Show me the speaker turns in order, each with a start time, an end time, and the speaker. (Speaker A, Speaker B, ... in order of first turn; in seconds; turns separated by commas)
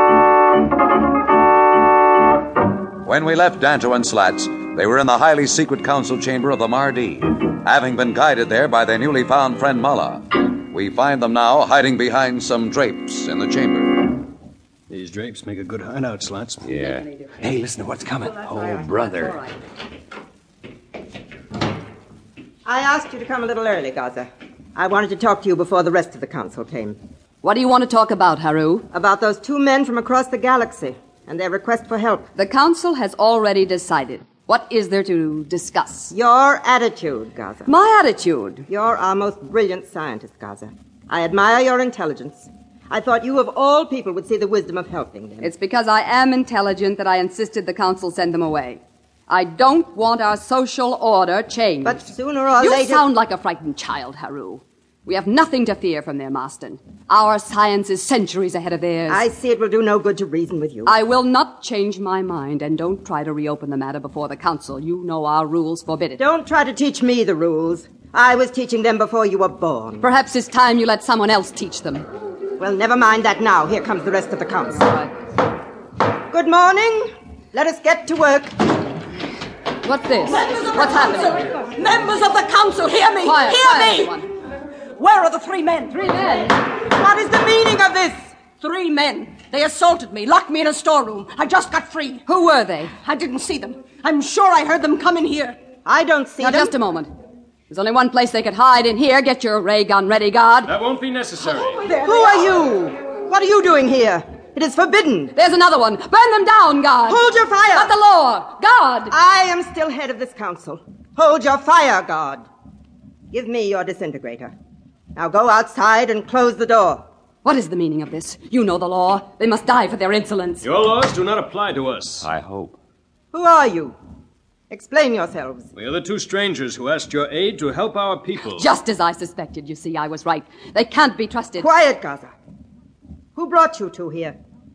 Speaker A: 3.0-14.2, Speaker B: 14.9-16.6, Speaker C: 16.6-19.4, Speaker D: 18.4-19.3, Speaker D: 22.6-27.0, Speaker E: 27.4-28.9, Speaker D: 28.9-32.3, Speaker E: 32.4-36.1, Speaker D: 36.1-37.7, Speaker E: 37.7-38.6, Speaker D: 38.7-45.5, Speaker E: 45.4-59.2, Speaker D: 51.8-53.0, Speaker D: 59.1-60.9, Speaker E: 60.9-66.2, Speaker D: 66.2-70.0, Speaker E: 70.0-72.1, Speaker D: 72.6-74.8, Speaker E: 74.7-75.1, Speaker D: 76.3-78.5, Speaker E: 79.8-81.5, Speaker F: 82.4-83.3, Speaker E: 83.2-84.3, Speaker F: 85.3-86.0, Speaker D: 86.8-88.3, Speaker F: 89.8-90.9, Speaker F: 91.6-92.2, Speaker E: 92.3-92.9, Speaker F: 93.0-95.6, Speaker D: 95.8-96.7, Speaker E: 96.4-97.1, Speaker E: 97.7-100.7, Speaker B: 100.7-102.0, Speaker D: 101.9-105.3, Speaker E: 105.3-109.2, Speaker D: 107.1-107.9, Speaker D: 109.1-112.5, Speaker D: 113.3-114.5, Speaker D: 115.2-117.0, Speaker E: 117.4-120.7, Speaker B: 120.6-122.3, Speaker C: 122.2-122.8, Speaker D: 123.3-124.0, Speaker D: 124.7-125.7, Speaker B: 125.8-128.7, Speaker E: 128.4-131.7, Speaker D: 131.6-132.3, Speaker D: 133.4-134.4